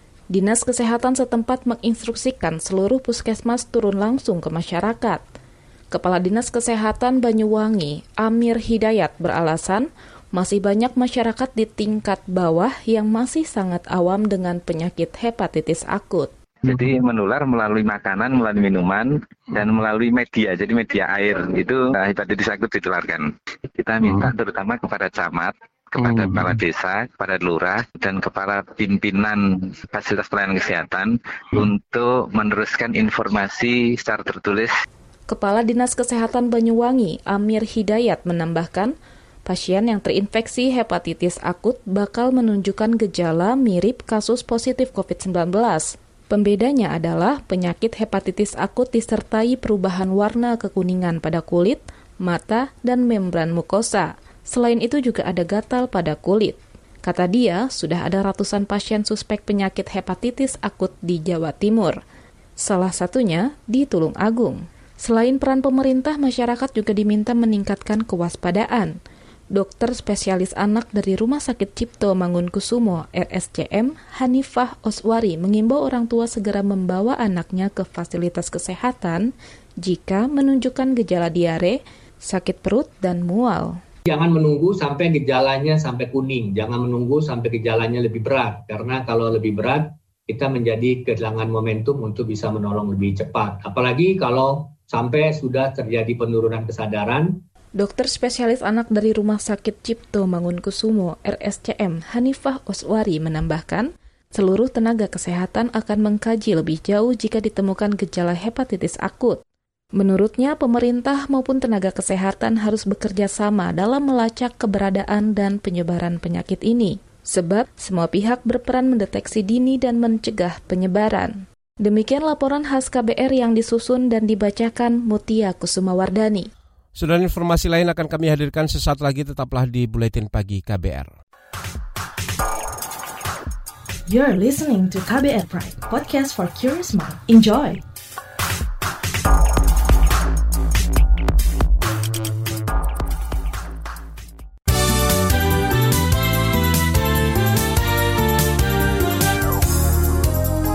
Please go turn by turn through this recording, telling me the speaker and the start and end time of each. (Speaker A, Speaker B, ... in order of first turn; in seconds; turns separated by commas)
Speaker A: 0.3-5.2, Speaker A: 5.9-16.3, Speaker B: 16.6-34.7, Speaker A: 35.3-39.0, Speaker A: 39.5-62.0, Speaker A: 62.6-69.0, Speaker A: 69.5-79.3, Speaker A: 79.8-83.8, Speaker C: 84.1-97.3, Speaker A: 97.8-109.4, Speaker A: 110.0-126.5, Speaker D: 127.0-131.1, Speaker E: 134.1-137.8